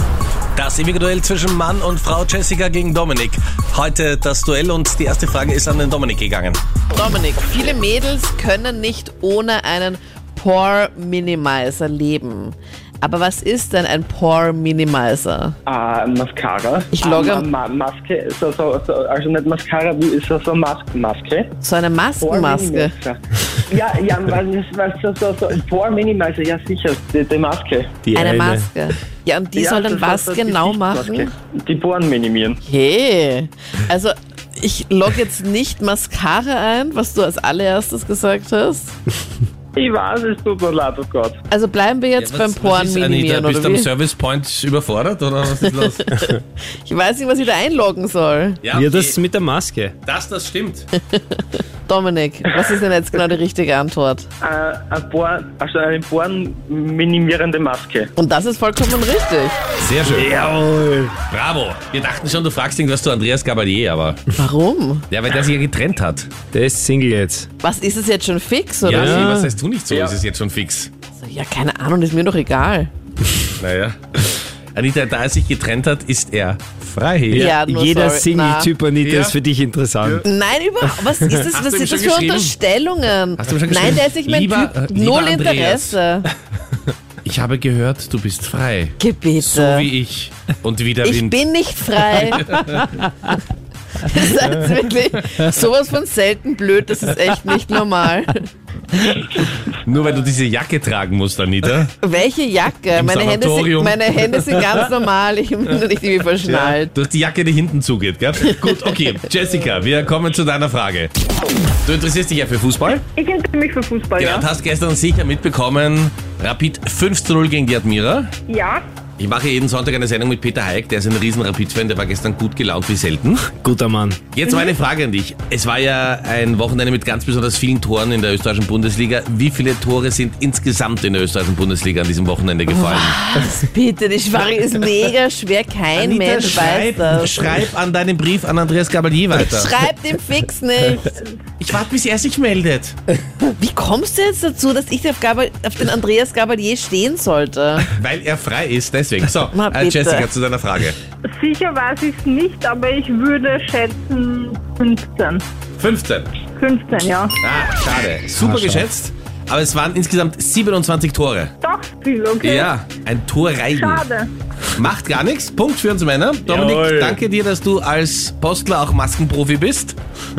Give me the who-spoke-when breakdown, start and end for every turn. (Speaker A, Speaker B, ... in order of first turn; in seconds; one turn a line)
Speaker A: 0.6-6.6
Speaker B: 6.9-15.6
Speaker C: 15.7-21.5
Speaker B: 16.9-17.5
Speaker B: 21.6-22.9
Speaker C: 22.2-27.9
Speaker D: 28.0-28.7
Speaker B: 28.1-31.3
Speaker C: 29.6-32.6
Speaker B: 32.6-38.9
Speaker C: 39.8-41.4
Speaker B: 41.5-43.9
Speaker A: 42.1-46.2
Speaker B: 45.6-48.6
Speaker A: 48.6-49.2
Speaker D: 48.7-49.9
Speaker A: 50.0-50.9
Speaker B: 50.9-54.3
Speaker C: 54.4-58.1
Speaker B: 58.2-59.6
Speaker A: 59.8-60.3
Speaker D: 60.1-61.1
Speaker A: 61.3-64.2
Speaker B: 64.3-65.0
Speaker A: 65.1-66.3
Speaker D: 66.5-67.5
Speaker B: 67.6-69.3
Speaker A: 68.8-70.9
Speaker D: 68.9-69.5
Speaker C: 69.9-70.2
Speaker B: 71.2-72.9
Speaker A: 73.6-74.0
Speaker A: 74.7-77.5
Speaker D: 77.3-80.2
Speaker B: 77.3-78.7
Speaker A: 79.0-79.4
Speaker B: 80.2-86.3
Speaker D: 81.1-81.4
Speaker A: 81.5-82.5
Speaker A: 83.4-86.0
Speaker A: 87.2-91.4
Speaker B: 89.0-89.9
Speaker B: 91.0-92.5
Speaker A: 92.3-92.8
Speaker B: 94.0-99.5
Speaker A: 99.8-102.0
Speaker B: 102.0-106.9
Speaker A: 102.9-104.5
Speaker A: 106.4-111.1
Speaker A: 111.8-113.0
Speaker E: 113.2-114.5
Speaker A: 114.2-118.3
Speaker E: 118.5-118.8
Speaker A: 119.2-123.5
Speaker D: 123.5-124.2
Speaker A: 124.3-133.2
Speaker B: 132.7-137.5
Speaker A: 135.9-139.7
Speaker B: 139.3-141.1
Speaker A: 141.6-142.9
Speaker B: 143.6-147.9
Speaker A: 147.9-151.0
Speaker B: 149.5-150.3
Speaker E: 151.3-155.4
Speaker A: 155.8-156.5
Speaker E: 156.5-157.3
Speaker A: 157.4-161.5
Speaker D: 158.3-158.8
Speaker E: 161.6-162.7
Speaker A: 162.4-164.0
Speaker E: 163.7-164.3
Speaker A: 164.7-170.0
Speaker D: 166.5-167.1